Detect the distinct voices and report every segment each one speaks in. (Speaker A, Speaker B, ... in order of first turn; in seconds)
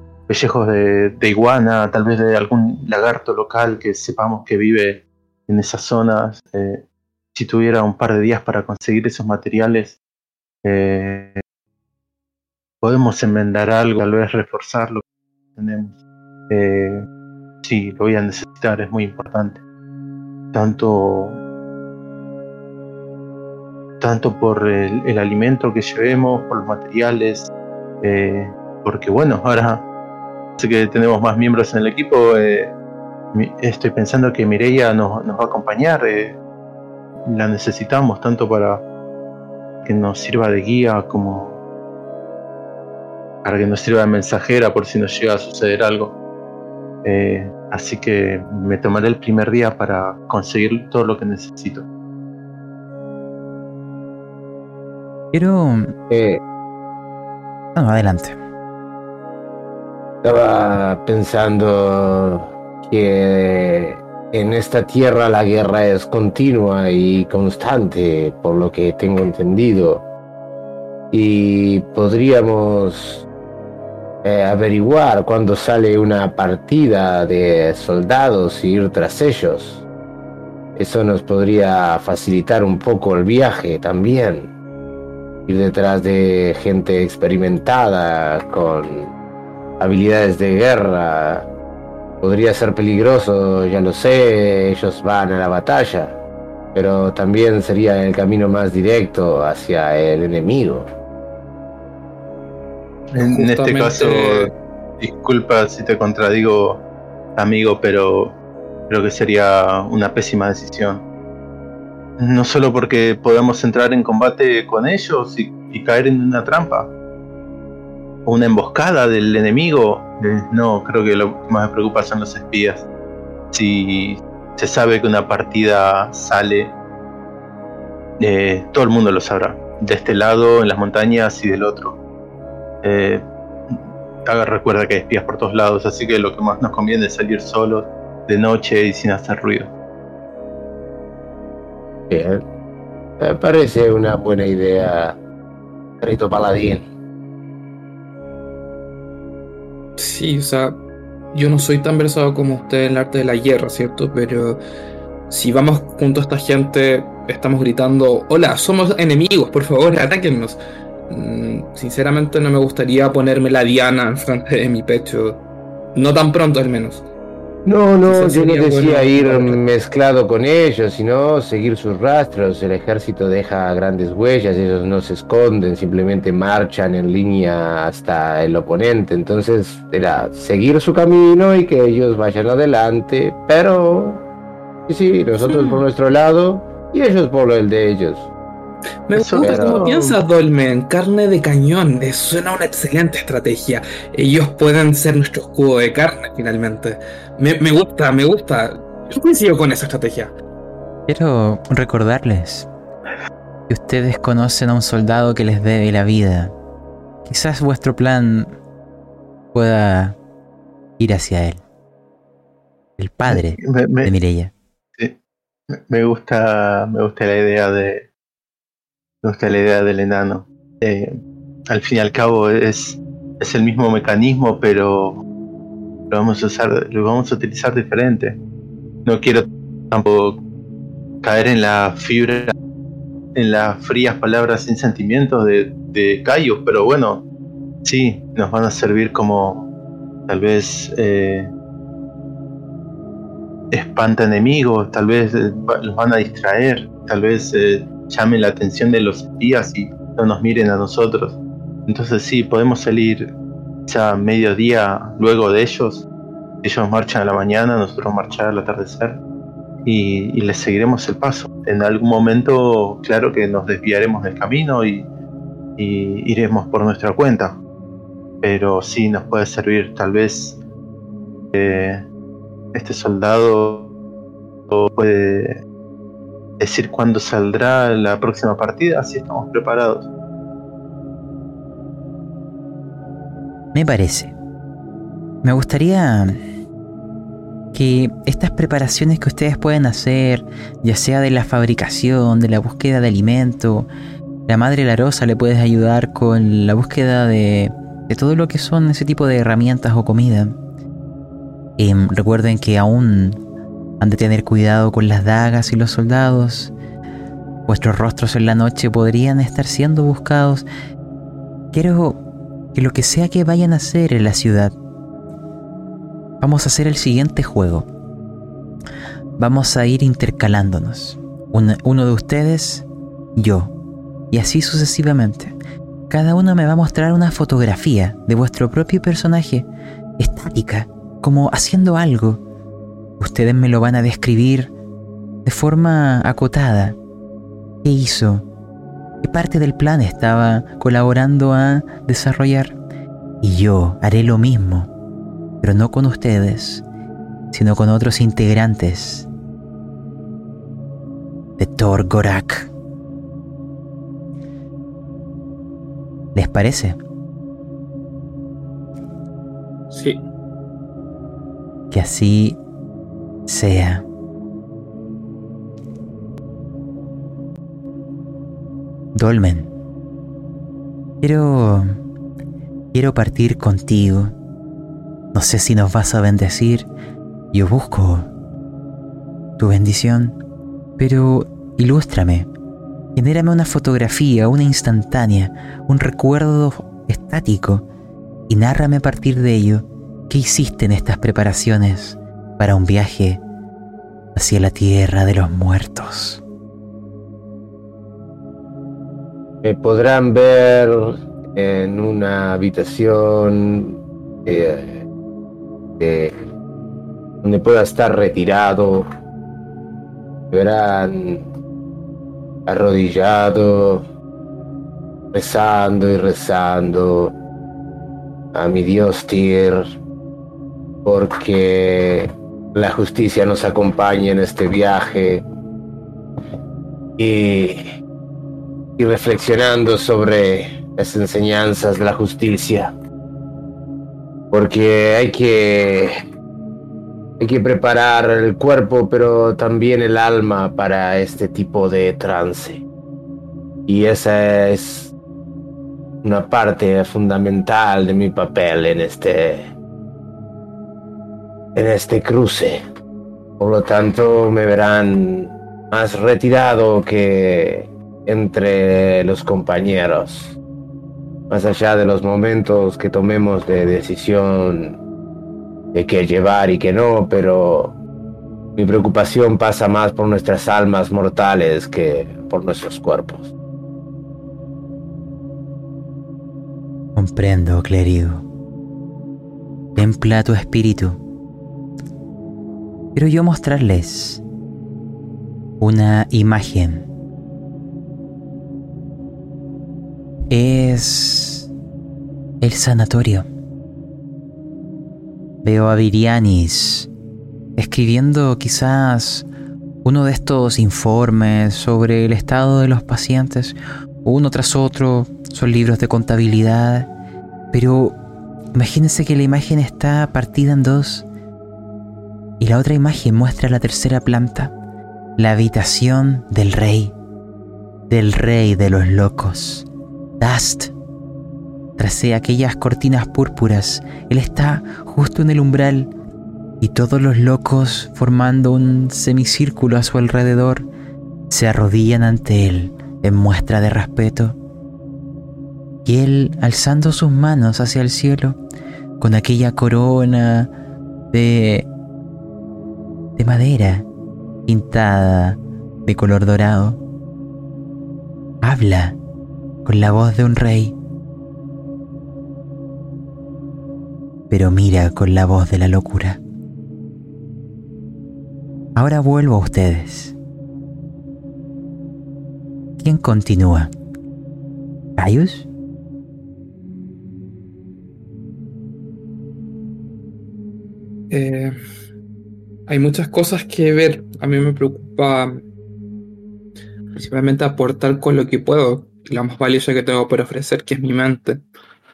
Speaker A: 0.3-10.0, 10.6-11.4, 12.8-15.0, 15.6-15.9, 16.5-17.1, 17.6-19.6, 20.5-21.4, 24.0-27.5, 28.0-29.8, 30.6-32.7, 33.3-36.4, 37.3-38.8, 39.8-41.6, 43.4-46.2, 47.0-51.9, 103.2-106.8, 107.3-108.4, 108.9-111.0, 112.2-116.9, 118.2-122.8, 123.5-126.7, 128.2-132.0, 132.8-139.7, 189.1-189.8, 213.3-214.1, 215.7-218.1, 219.2-221.2, 221.7-225.2, 226.1-228.4, 229.0-230.4, 231.2-232.5, 233.3-237.2, 237.8-239.7, 240.3-241.5, 243.7-253.3, 253.9-256.1, 256.6-259.2, 259.8-265.1, 265.8-267.6, 268.4-270.6, 271.5-272.0, 272.7-273.9, 274.7-275.6, 276.6-280.1
Speaker B: 55.3-55.9, 57.7-58.4, 201.1-202.7, 203.7-206.5, 207.2-208.5, 209.5-210.2, 211.0-211.6, 213.0-214.5, 283.7-284.3, 285.4-286.4, 287.7-293.9, 294.5-300.6, 301.8-303.4, 304.0-306.7, 307.7-310.6, 311.7-312.2, 312.7-314.7, 316.4-317.9, 319.4-323.7, 324.3-325.5, 326.1-329.7, 330.2-332.4, 333.2-334.7, 335.4-337.0, 337.8-338.4, 339.2-342.8, 343.4-344.9, 345.6-346.8, 347.5-349.3, 351.6-352.7, 356.3-357.0, 361.9-362.6, 363.5-364.1, 369.1-369.7, 371.2-371.9, 372.9-374.3, 375.3-376.9, 377.5-378.3, 379.6-380.4, 381.0-382.5, 383.1-387.8, 388.5-393.4, 394.3-396.4, 477.1-478.4, 479.9-481.2, 483.1-484.4, 485.8-487.1, 490.5-491.7, 492.6-493.5, 495.6-497.1, 497.8-499.4, 500.0-507.1, 507.7-508.2, 508.7-511.2, 512.6-514.7, 515.4-517.1, 518.1-519.9, 520.4-520.9, 522.0-526.1, 526.8-530.9, 531.5-534.5, 536.0-538.6, 539.2-540.7, 541.3-541.9, 543.4-544.1, 544.7-547.0, 548.6-549.2, 549.8-550.9, 554.5-556.4, 559.0-560.3, 563.0-563.9, 565.2-565.6
Speaker C: 56.1-56.4, 60.2-70.0, 71.1-73.2, 74.2-79.8, 80.8-84.5, 85.5-89.1, 89.8-91.5, 92.2-96.2, 96.7-100.9, 142.1-142.4, 143.2-145.2, 146.0-146.9, 167.6-184.2, 184.9-188.3, 189.4-190.2, 399.6-405.1, 406.0-406.4, 407.4-409.1, 410.5-411.5, 412.6-414.1, 415.3-417.3, 418.5-419.9, 421.0-425.4, 427.2-427.9, 429.0-432.9, 434.5-436.2, 437.4-442.8, 443.9-445.1, 446.2-449.7, 451.7-452.8, 453.6-460.6, 461.5-465.0, 465.9-468.0, 468.8-473.5
Speaker D: 103.1-104.5, 150.0-150.8, 151.3-154.6, 155.3-160.6, 161.1-165.4, 165.9-167.0, 168.1-169.6, 189.1-200.3, 359.9-360.2, 571.3-571.8, 572.9-575.6, 577.1-581.6